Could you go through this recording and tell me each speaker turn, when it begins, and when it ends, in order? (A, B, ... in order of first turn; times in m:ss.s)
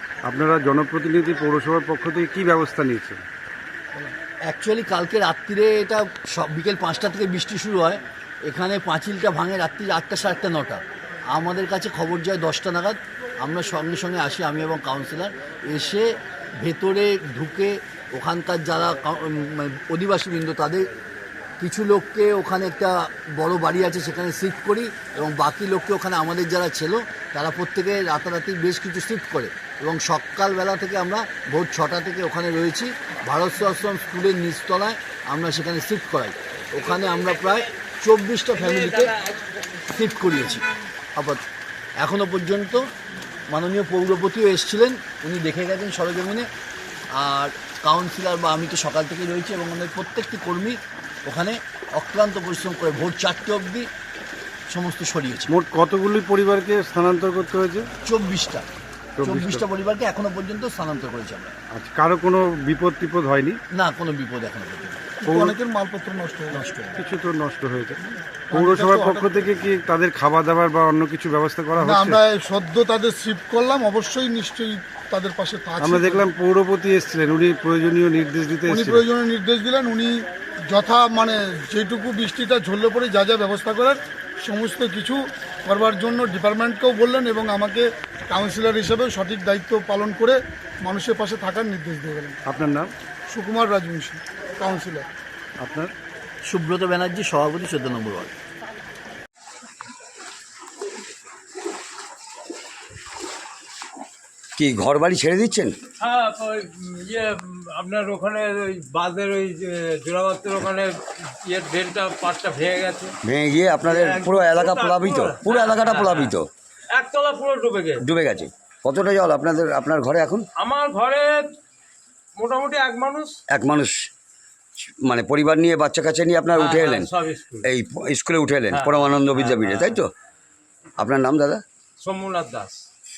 0:00.2-0:03.2 A
0:04.5-0:20.9 B
0:21.6-0:39.1 B
0:38.5-0:39.5 C
0:39.8-0:41.4 B
0:42.0-0:42.9 B
0:43.5-0:46.5 B
0:47.2-0:53.9 B
0:54.7-0:55.5 B
0:55.5-0:57.9 A
0:58.0-0:58.6 B
0:59.2-0:59.6 A
0:59.2-1:01.5 B
1:01.7-1:03.6 A
1:03.7-1:05.1 B
1:05.2-1:06.9 D
1:05.3-1:05.5 A
1:07.0-1:08.0 A
1:08.5-1:09.4 D
1:08.6-1:12.1 A
1:11.8-1:16.3 D
1:15.8-1:19.0 A
1:18.6-1:32.4 D
1:32.5-1:32.9 A
1:33.3-1:35.1 D
1:35.6-1:35.9 A
1:36.4-1:38.3 B
1:44.6-1:45.7 E
1:46.0-1:50.9 C
1:51.4-1:53.1 C
1:53.2-1:56.4 E
1:53.8-1:56.4 C
1:56.9-1:58.0 C
1:58.0-2:00.4 E
2:00.6-2:01.5 C
2:02.4-2:03.4 C
2:03.5-2:03.9 E
2:05.0-2:07.1 E
2:06.5-2:07.7 C
2:07.7-2:10.1 E
2:08.7-2:10.0 C
2:11.0-2:11.6 E
2:12.0-2:12.8 C